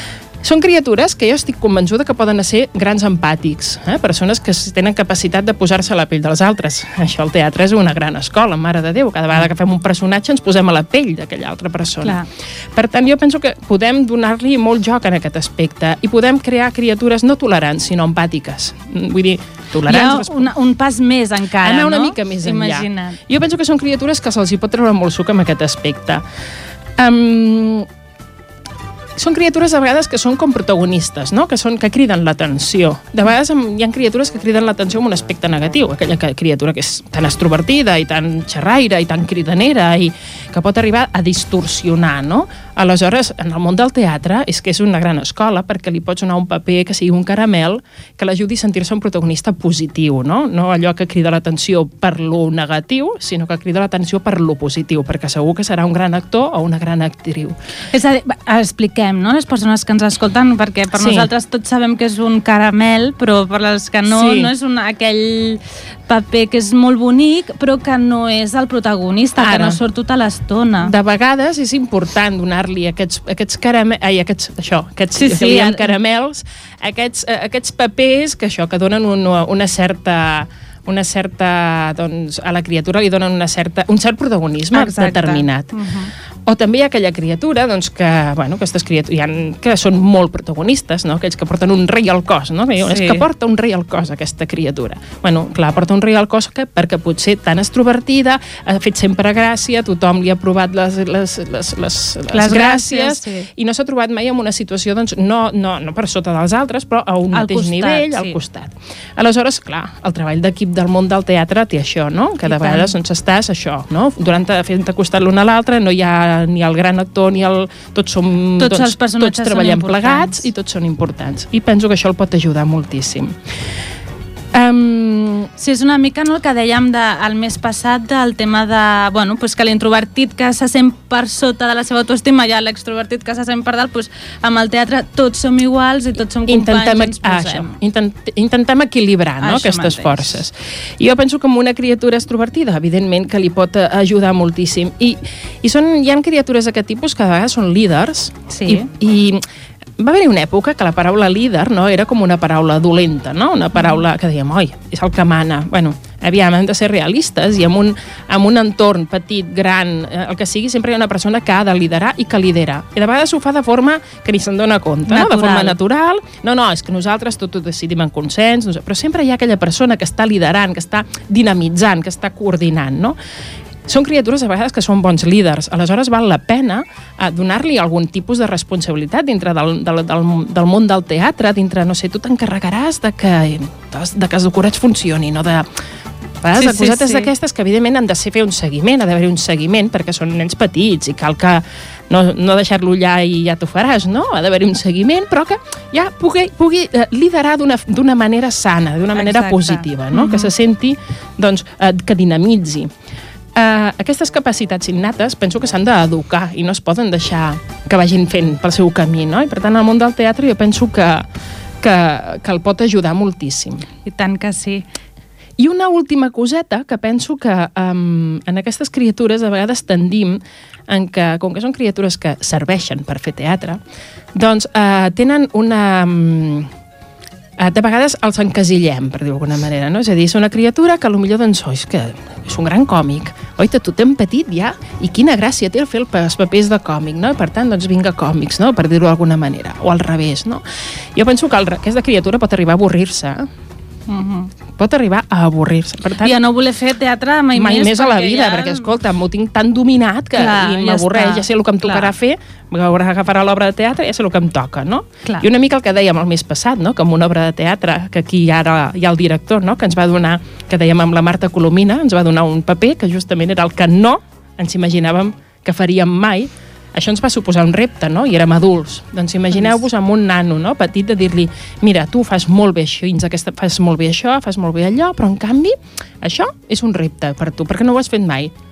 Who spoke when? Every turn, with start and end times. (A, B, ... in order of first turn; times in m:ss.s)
0:00.4-0:12.2 A
0:12.7-0:20.5 A
0:19.9-0:23.2 B
0:21.6-0:26.2 A
0:27.0-0:27.9 A
0:29.2-0:57.6 A
0:57.9-1:10.9 B
1:00.9-1:01.3 A
1:04.1-1:04.5 A
1:09.4-1:09.8 A
1:10.8-1:25.7 A
1:15.1-1:15.8 B
1:24.7-1:26.1 B
1:26.4-2:03.4 A
1:32.8-1:33.2 B
1:42.3-1:43.5 B
1:47.3-1:48.4 B
1:52.4-1:52.9 B
1:58.6-2:00.5 B
2:04.5-2:05.5 A
2:05.6-2:17.7 B
2:16.5-2:29.4 A
2:19.4-2:20.4 B
2:28.5-2:28.9 B
2:30.0-2:53.2 A
2:33.8-2:34.0 B
2:45.1-2:45.8 B
2:53.9-3:05.7 A
3:06.4-3:22.9 A
3:06.5-3:07.3 B
3:19.1-3:20.5 B
3:23.5-3:31.2 A
3:31.8-3:33.8 A
3:34.0-3:34.8 B
3:35.6-3:43.8 A
3:44.3-3:46.7 A
3:47.6-4:00.6 A
4:01.1-4:03.5 A
4:04.1-4:04.5 B
4:04.8-4:06.4 A
4:06.2-4:08.9 B
4:07.5-4:38.5 A
4:10.4-4:12.1 B
4:29.5-4:29.8 B